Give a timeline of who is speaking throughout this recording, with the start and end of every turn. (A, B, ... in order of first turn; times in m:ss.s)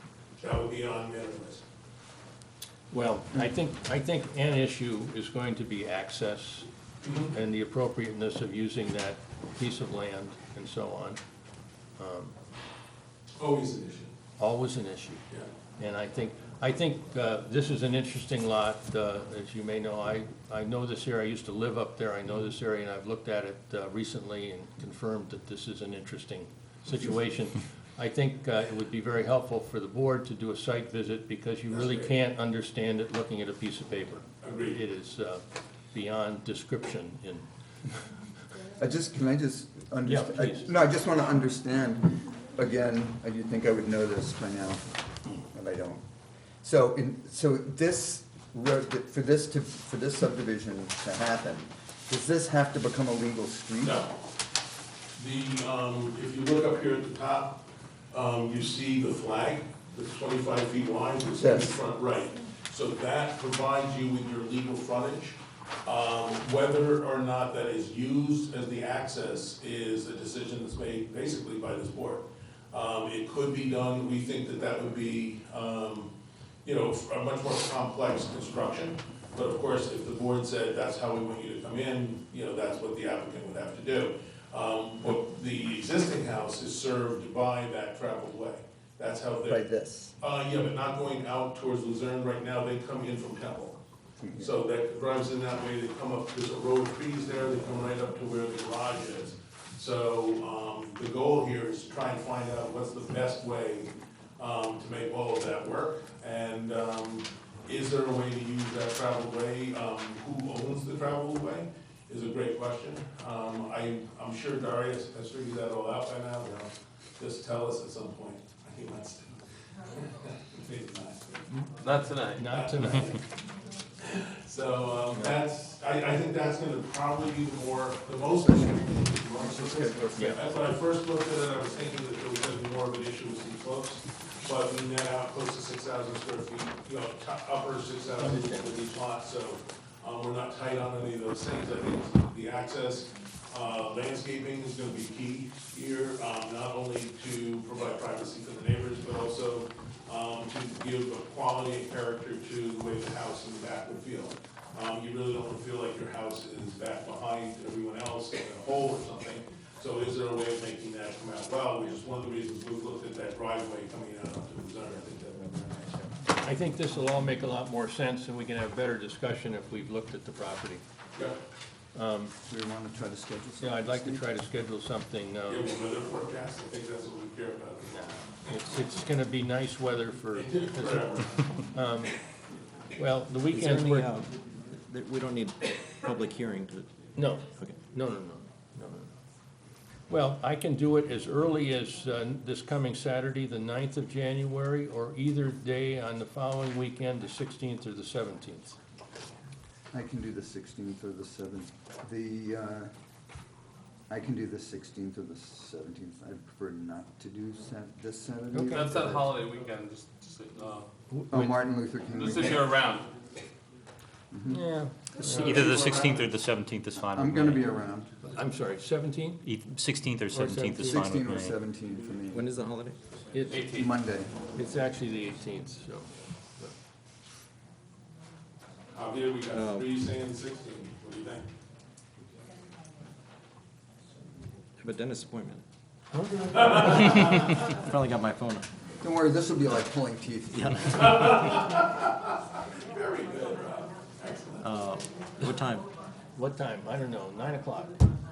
0:00.4-0:01.6 A
0:02.9-0:11.2 B
0:07.0-0:07.3 A
0:12.0-0:12.3 B
0:13.4-0:14.1 A
0:14.4-0:15.2 B
0:15.8-0:38.1 B
0:31.7-0:32.1 A
0:34.4-0:34.8 A
0:38.8-0:46.0 C
0:40.0-0:40.7 B
0:46.6-0:54.0 C
0:53.8-0:54.1 A
0:55.2-0:57.6 A
0:58.1-1:16.1 A
1:01.4-1:01.7 C
1:16.6-1:29.6 A
1:29.4-1:30.1 C
1:30.2-1:33.8 A
1:34.2-1:34.5 C
1:34.4-2:01.3 A
2:01.8-2:02.5 D
2:02.3-2:03.1 B
2:02.4-2:03.2 A
2:04.0-2:46.1 A
2:10.1-2:10.4 B
2:18.2-2:18.7 B
2:46.4-2:50.8 B
2:51.9-2:52.3 B
2:52.5-2:54.2 C
2:53.6-2:55.7 B
2:55.5-2:58.6 A
2:57.9-3:02.2 B
3:00.3-3:01.5 A
3:03.0-3:04.2 B
3:03.5-3:06.9 E
3:07.2-3:09.1 B
3:07.6-3:07.8 E
3:10.1-3:18.8 B
3:19.9-3:22.9 C
3:24.1-3:29.4 C
3:28.5-3:28.9 B
3:28.7-3:30.9 D
3:31.1-3:31.8 B
3:31.3-3:32.8 C
3:32.1-3:33.1 D
3:34.3-3:34.7 C
3:34.5-3:35.6 B
3:35.2-3:36.2 A
3:35.2-3:37.6 F
3:37.1-3:38.1 C
3:38.2-3:39.4 B
3:39.4-3:41.6 F
3:40.3-3:41.2 B
3:40.9-3:42.5 C
3:42.3-3:43.0 E
3:43.3-3:43.9 B
3:43.5-3:43.9 D
3:43.7-3:44.3 C
3:44.5-3:46.7 B
3:48.9-3:51.5 A
3:49.5-3:49.9 E
3:54.8-3:55.6 E
3:56.1-3:57.6 B
3:56.6-3:57.5 A
3:57.6-3:58.7 E
3:59.0-4:01.1 C
4:00.5-4:01.4 E
4:00.9-4:02.3 A
4:02.9-4:04.7 A
4:04.6-4:05.9 E
4:06.4-4:07.9 B